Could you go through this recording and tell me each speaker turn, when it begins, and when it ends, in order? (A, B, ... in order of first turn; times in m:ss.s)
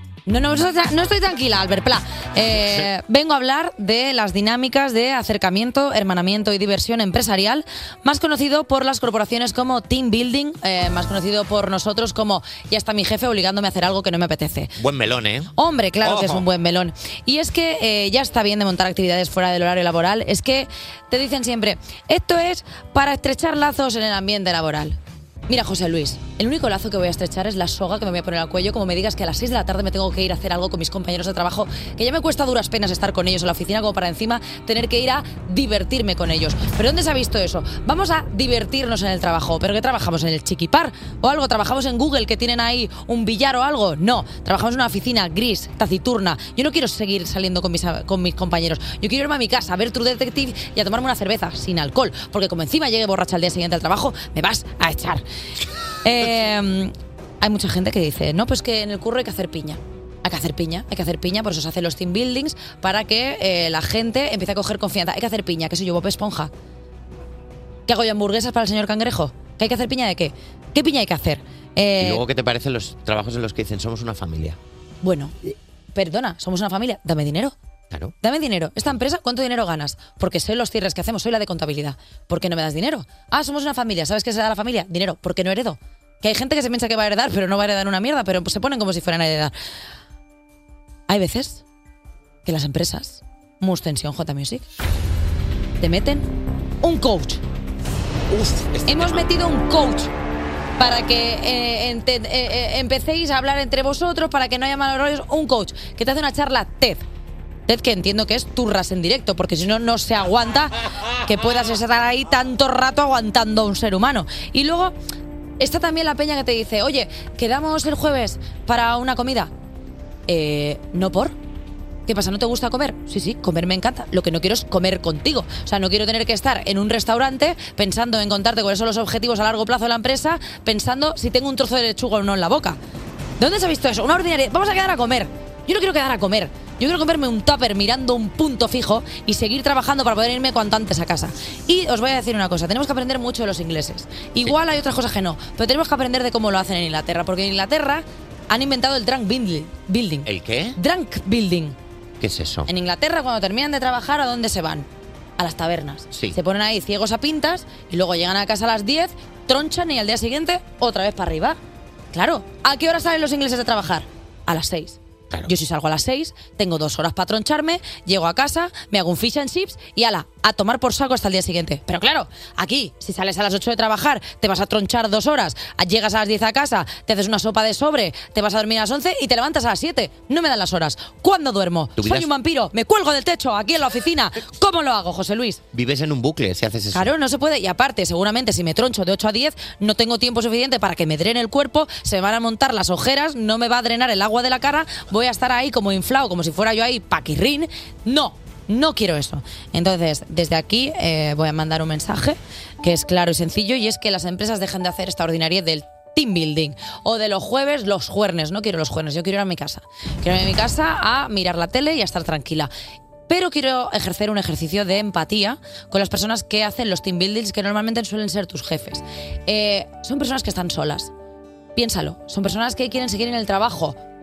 0:00.3-0:14.7 A
0:14.8-0:15.5 B
0:15.6-0:25.0 A
0:16.0-0:16.4 B
0:25.5-0:55.2 A
0:56.0-1:06.5 A
1:07.9-1:12.2 A
1:12.0-1:14.6 B
1:15.0-1:17.6 A
1:18.2-1:29.5 A
1:31.1-1:31.6 A
1:32.4-1:34.6 A
1:35.8-1:36.3 A
1:36.8-1:37.4 A
1:38.3-1:39.2 B
1:38.9-1:40.1 A
1:40.8-1:47.0 A
1:47.7-1:55.0 A
1:55.6-1:59.5 A
2:00.3-2:01.4 A
2:02.1-2:12.8 A
2:13.4-2:31.8 A
2:30.3-2:30.8 B
2:32.2-2:32.7 B
2:32.7-2:41.6 A
2:42.1-3:05.6 A
3:02.0-3:02.3 B
3:05.7-3:07.1 B
3:06.9-3:32.7 A
3:33.3-3:41.1 A
3:41.8-3:44.0 A